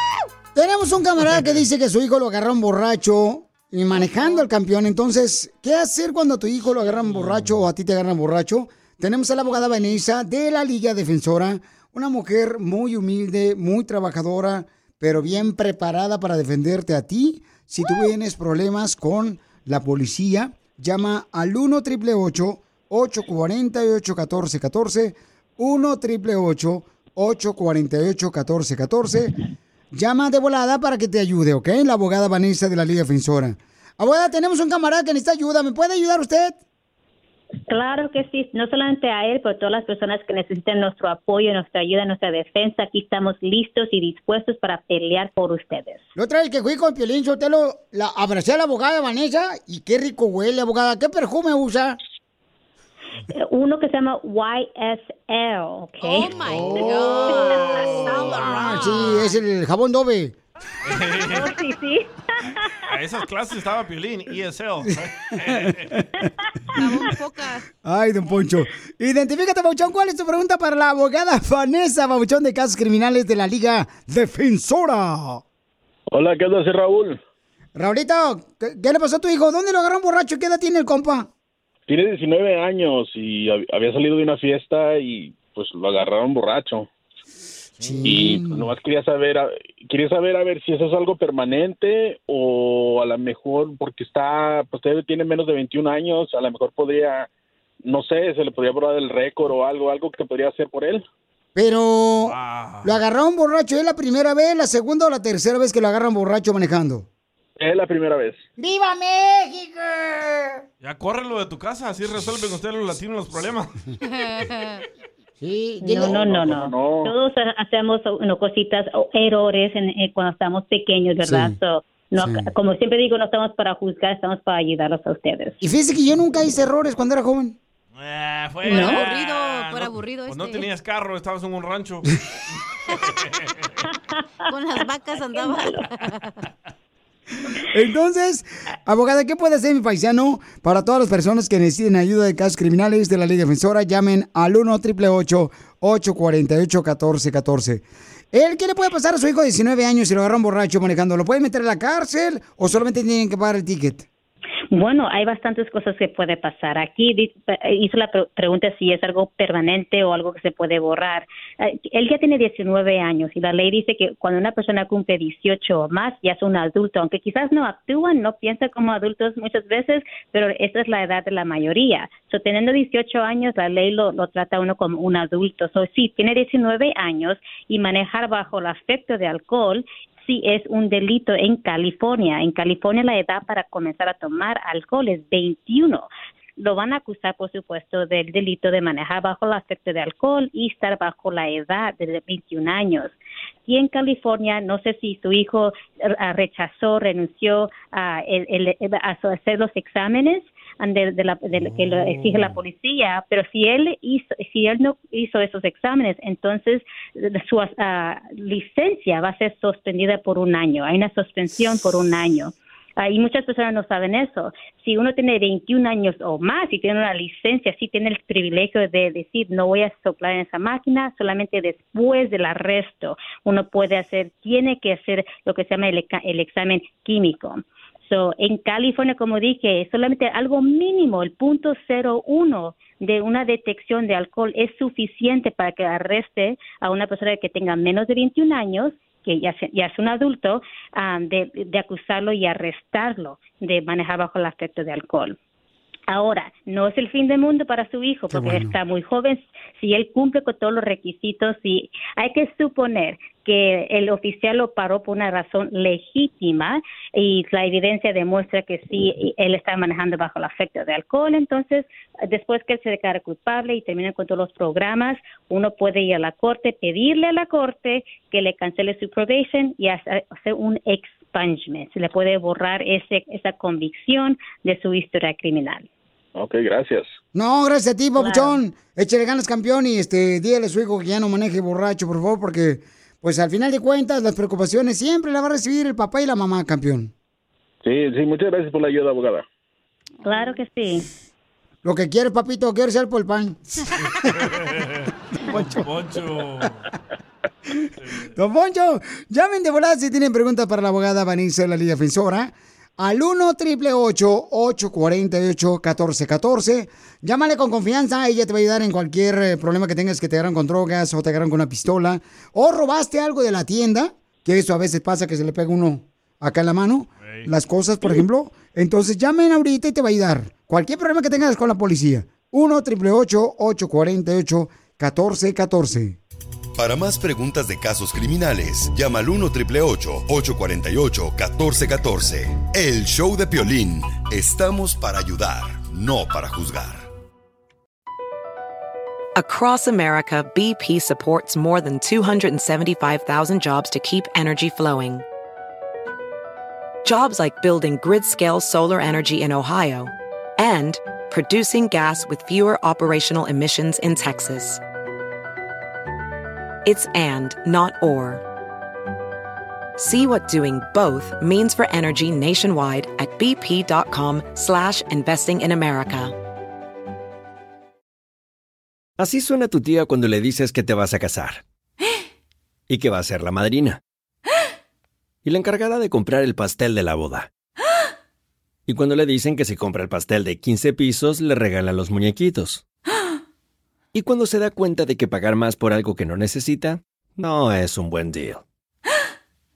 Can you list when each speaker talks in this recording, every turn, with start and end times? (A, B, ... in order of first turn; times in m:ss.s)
0:00.6-0:29.4 A
0:07.1-0:07.5 B
0:29.9-0:36.6 A
0:37.7-0:46.0 C
0:46.2-0:52.0 A
0:53.3-0:58.0 C
0:56.0-0:59.4 D
0:56.6-0:59.0 B
0:58.5-1:00.4 A
1:00.9-1:01.5 B
1:01.3-1:02.9 C
1:02.9-1:06.0 B
1:06.7-1:07.6 D
1:07.8-1:15.4 A
1:16.1-1:17.2 E
1:17.8-1:21.3 A
1:21.9-1:26.9 E
1:27.8-1:28.7 A
1:27.8-1:37.3 E
1:37.9-1:41.0 E
1:41.6-1:47.1 A
1:42.2-1:43.0 B
1:47.6-1:48.4 E
1:48.6-1:50.6 A
1:50.8-1:53.7 B
1:54.0-1:54.8 D
1:55.4-1:56.4 A
1:55.8-2:05.6 C
1:56.1-1:57.1 E
2:01.2-2:01.6 A
2:02.2-2:02.4 A
2:05.6-2:07.6 A
2:08.0-2:12.1 B
2:08.7-2:10.6 D
2:08.7-2:09.0 C
2:13.1-2:13.7 B
2:14.5-2:16.4 D
2:17.7-2:34.1 A
2:34.7-3:13.2 C
3:13.7-4:05.4 C
4:06.1-4:35.9 C
4:08.3-4:08.7 A
4:36.4-4:37.1 E
4:37.4-4:47.1 A
4:38.2-4:38.6 C
4:47.8-4:49.4 E
4:50.2-4:51.1 C
4:50.3-4:50.5 D
4:51.8-4:54.3 A
4:54.2-4:56.8 B
4:55.5-4:55.9 A
4:58.0-4:58.3 B
4:58.4-5:26.2 A
5:17.2-5:17.5 B
5:26.8-5:37.1 F
5:39.4-5:45.2 G
5:47.0-5:54.8 G
5:56.8-5:58.4 G
6:00.0-6:06.3 G
6:09.2-6:11.6 H
6:12.9-6:14.0 H
6:15.4-6:17.5 H
6:18.9-6:22.8 H
6:24.1-6:28.6 H